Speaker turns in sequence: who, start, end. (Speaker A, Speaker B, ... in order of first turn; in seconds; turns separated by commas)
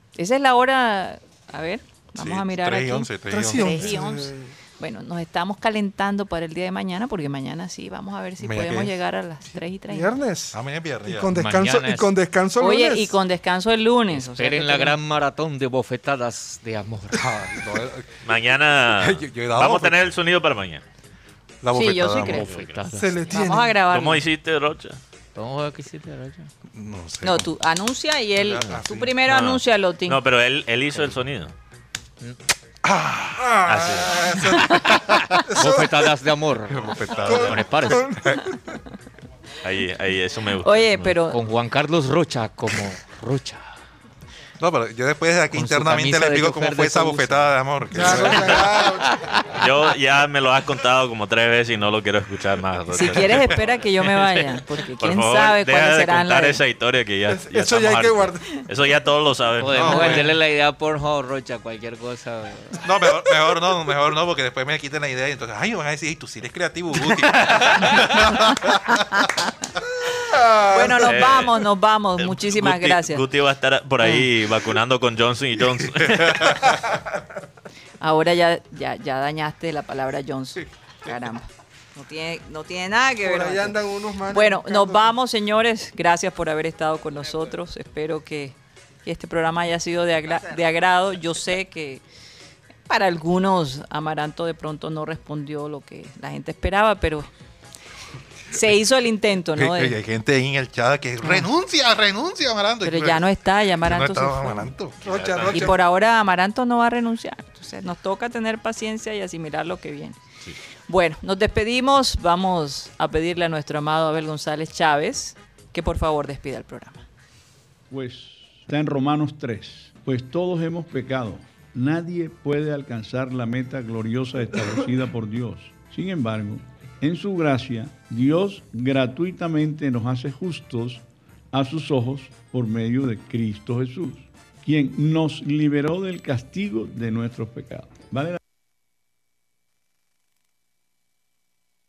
Speaker A: 0.2-10.1, Speaker B: 2.2-4.0, Speaker C: 3.3-4.5, Speaker B: 8.4-8.9, Speaker C: 9.9-13.2, Speaker B: 10.5-11.3, Speaker D: 11.3-12.1, Speaker A: 12.6-15.0, Speaker D: 14.1-17.3, Speaker B: 17.1-18.1, Speaker E: 18.2-20.8, Speaker B: 18.9-20.1, Speaker B: 21.6-22.6, Speaker A: 21.7-22.5, Speaker E: 22.4-25.0, Speaker D: 22.4-23.2, Speaker C: 22.9-23.8, Speaker A: 23.3-24.2, Speaker D: 25.4-26.5, Speaker B: 26.7-27.5, Speaker A: 27.2-30.2, Speaker B: 28.4-29.1, Speaker E: 28.7-31.5, Speaker B: 32.8-35.4, Speaker C: 33.4-36.0, Speaker E: 33.6-34.7, Speaker D: 35.4-38.1, Speaker B: 36.7-38.5, Speaker C: 37.2-38.4, Speaker E: 39.6-41.1, Speaker A: 40.6-41.4, Speaker D: 41.3-43.7, Speaker B: 44.6-48.7, Speaker D: 45.5-47.5, Speaker C: 47.9-49.2, Speaker E: 48.0-48.8, Speaker E: 49.5-60.3, Speaker A: 52.9-56.6, Speaker C: 57.3-58.4, Speaker D: 59.6-62.8, Speaker B: 59.7-60.3, Speaker B: 62.8-69.3, Speaker A: 68.2-69.5, Speaker C: 70.3-71.2, Speaker A: 70.6-73.2, Speaker E: 71.0-71.6, Speaker E: 72.2-76.9, Speaker B: 76.0-76.6, Speaker A: 78.0-83.8, Speaker C: 83.2-85.1, Speaker A: 84.3-92.0, Speaker A: 92.9-97.3, Speaker A: 98.5-100.0, Speaker B: 99.6-103.3, Speaker A: 101.2-101.5, Speaker A: 102.8-104.7, Speaker B: 103.8-105.0, Speaker C: 105.0-105.8, Speaker E: 105.0-105.8, Speaker A: 105.4-110.2, Speaker A: 110.9-117.1, Speaker F: 117.9-138.4